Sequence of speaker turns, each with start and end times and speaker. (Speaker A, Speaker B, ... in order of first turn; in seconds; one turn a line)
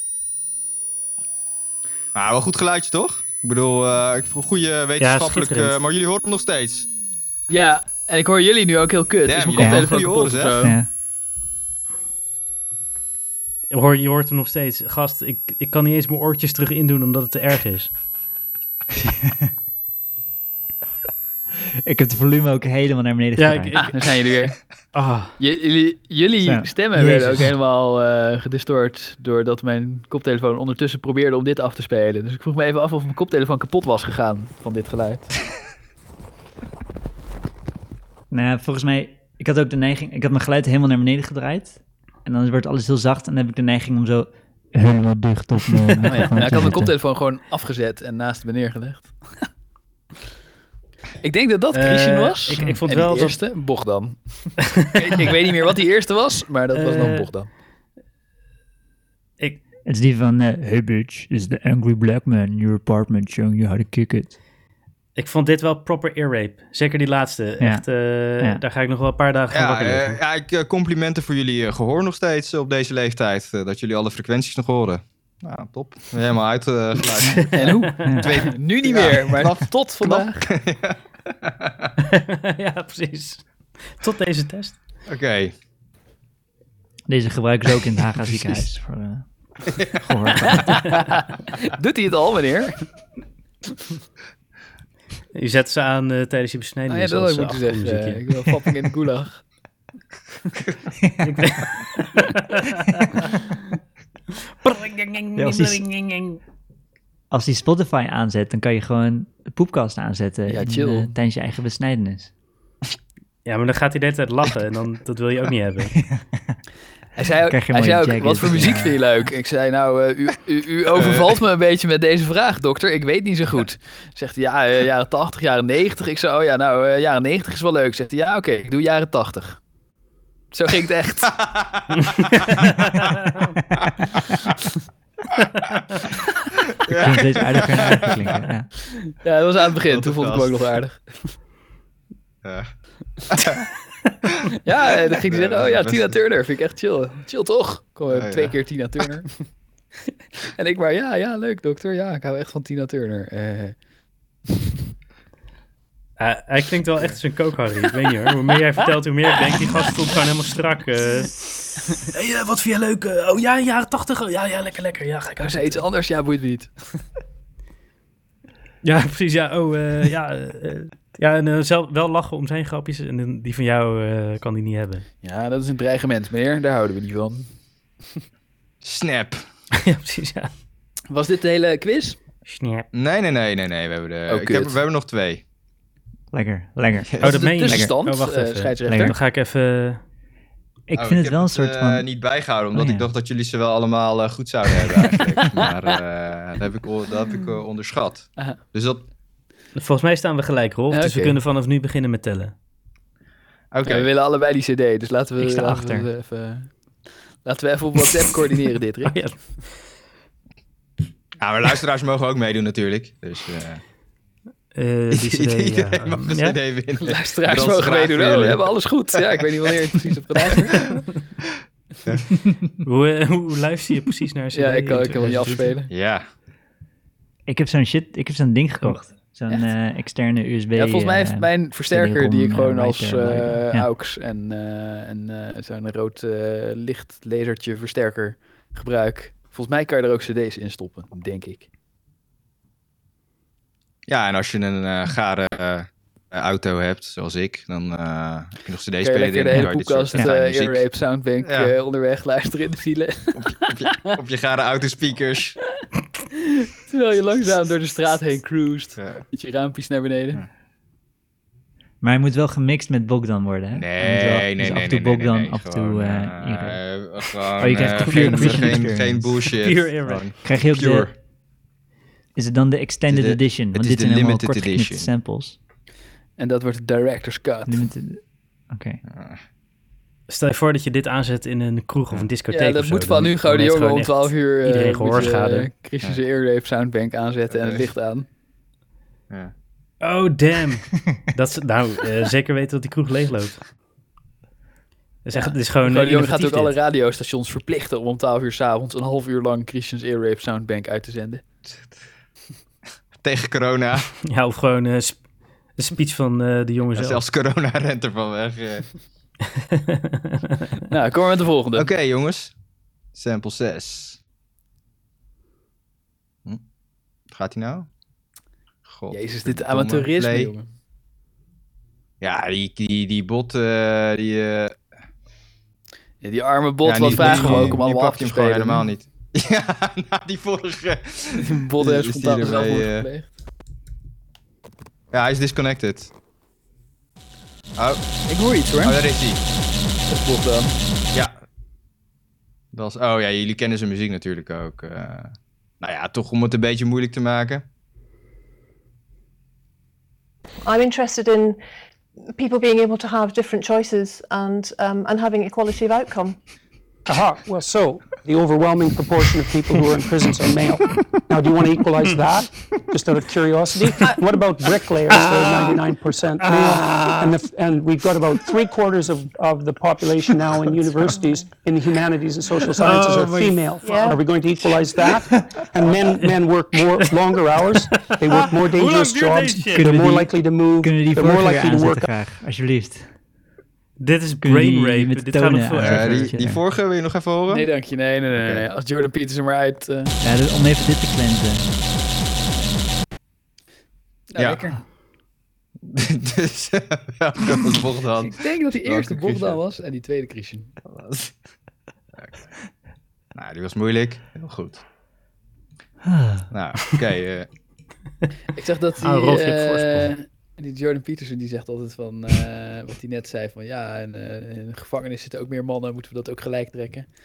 Speaker A: 2.1-6.9
Speaker B: 5.0-5.8
Speaker C: 7.5-10.8
Speaker A: 9.2-10.7
Speaker D: 9.6-9.9
Speaker D: 10.6-10.9
Speaker B: 13.7-17.9
Speaker D: 21.8-23.8
Speaker B: 23.4-24.1
Speaker C: 23.8-24.6
Speaker B: 24.9-25.3
Speaker C: 25.4-35.3
Speaker D: 26.4-27.5
Speaker D: 38.3-46.9
Speaker B: 46.0-46.4
Speaker C: 46.2-49.5
Speaker C: 51.2-57.5
Speaker B: 51.7-53.4
Speaker B: 54.8-55.3
Speaker B: 56.7-57.3
Speaker D: 59.9-64.4
Speaker B: 65.2-70.2
Speaker D: 67.6-67.8
Speaker D: 68.4-68.6
Speaker A: 69.5-81.9
Speaker C: 77.5-80.5
Speaker D: 78.0-78.3
Speaker B: 82.0-84.8
Speaker A: 85.1-85.5
Speaker D: 87.1-91.0
Speaker A: 89.7-90.0
Speaker C: 90.7-92.8
Speaker B: 95.3-98.2
Speaker C: 96.9-99.4
Speaker B: 101.2-103.4
Speaker B: 104.6-106.4
Speaker D: 105.4-105.8
Speaker D: 107.3-112.3
Speaker C: 110.5-111.1
Speaker B: 113.4-116.0
Speaker D: 116.0-116.6
Speaker C: 117.2-129.6
Speaker D: 117.5-119.0
Speaker A: 120.9-121.3
Speaker C: 130.5-131.3
Speaker A: 131.3-132.7
Speaker B: 132.4-133.5
Speaker A: 136.8-138.4
Speaker D: 136.9-138.7
Speaker C: 139.1-141.2
Speaker A: 139.9-140.6
Speaker A: 142.4-142.7
Speaker A: 143.3-143.7
Speaker C: 144.6-149.4
Speaker A: 145.1-146.2
Speaker A: 148.1-148.5
Speaker C: 150.6-153.8
Speaker B: 156.2-165.8
Speaker C: 165.4-166.9
Speaker B: 168.8-175.1
Speaker C: 175.2-177.5
Speaker A: 178.8-179.4
Speaker B: 179.7-180.5
Speaker C: 181.1-182.2
Speaker B: 182.4-182.9
Speaker A: 182.9-185.4
Speaker C: 184.3-184.8
Speaker D: 186.3-187.9
Speaker C: 187.2-189.2
Speaker B: 187.2-190.0
Speaker D: 188.9-189.2
Speaker D: 190.9-192.1
Speaker A: 190.9-199.0
Speaker D: 192.7-193.1
Speaker B: 199.7-202.5
Speaker C: 200.9-201.4
Speaker A: 203.7-204.1
Speaker C: 203.8-206.7
Speaker D: 205.4-206.1
Speaker C: 207.4-209.3
Speaker B: 209.1-209.4
Speaker A: 211.4-213.8
Speaker B: 214.7-216.6
Speaker A: 215.1-218.8
Speaker C: 217.0-220.9
Speaker A: 222.0-222.4
Speaker B: 222.8-225.7
Speaker C: 224.5-225.9
Speaker A: 225.9-226.2
Speaker D: 227.5-233.9
Speaker C: 230.7-241.7
Speaker A: 244.1-250.8
Speaker C: 249.0-254.2
Speaker D: 249.5-250.3
Speaker A: 251.4-251.7
Speaker A: 253.3-255.6
Speaker C: 256.6-260.4
Speaker A: 259.0-259.2
Speaker D: 262.0-266.8
Speaker A: 263.7-271.1
Speaker D: 267.6-269.4
Speaker B: 269.6-270.2
Speaker D: 270.4-271.1
Speaker D: 272.4-275.6
Speaker A: 273.1-275.1
Speaker C: 276.4-277.8
Speaker D: 277.7-279.0
Speaker A: 279.1-279.4
Speaker B: 280.3-285.7
Speaker C: 282.5-288.2
Speaker A: 287.5-287.9
Speaker B: 290.0-293.6
Speaker B: 295.2-296.7
Speaker C: 295.3-301.4
Speaker A: 303.2-304.1
Speaker B: 304.2-305.2
Speaker B: 305.7-307.2
Speaker A: 306.9-309.0
Speaker B: 309.7-310.6
Speaker C: 310.9-311.9
Speaker A: 311.8-312.5
Speaker A: 313.1-314.2
Speaker A: 317.3-317.9
Speaker A: 318.9-320.5
Speaker C: 319.1-320.6
Speaker A: 322.2-324.8
Speaker C: 326.2-328.9
Speaker A: 326.8-333.1
Speaker B: 327.2-327.8
Speaker C: 331.4-333.3
Speaker A: 335.1-336.1
Speaker A: 337.8-338.1
Speaker C: 338.3-339.0
Speaker A: 338.8-339.4
Speaker C: 340.1-340.8
Speaker A: 342.7-347.6
Speaker E: 350.6-351.6
Speaker E: 352.3-356.4
Speaker F: 357.1-382.1
Speaker B: 372.8-374.0
Speaker E: 373.8-374.2
Speaker B: 378.3-379.9
Speaker D: 379.7-383.1
Speaker B: 384.0-386.3
Speaker D: 384.4-386.6
Speaker A: 385.8-387.7
Speaker C: 387.5-390.1
Speaker A: 388.3-388.6
Speaker D: 390.2-391.7
Speaker C: 394.3-394.8
Speaker A: 395.8-399.6
Speaker C: 398.2-400.7
Speaker A: 400.9-401.3
Speaker A: 403.3-404.8
Speaker D: 406.0-406.5
Speaker A: 406.5-407.5
Speaker C: 408.5-417.1
Speaker B: 409.0-410.1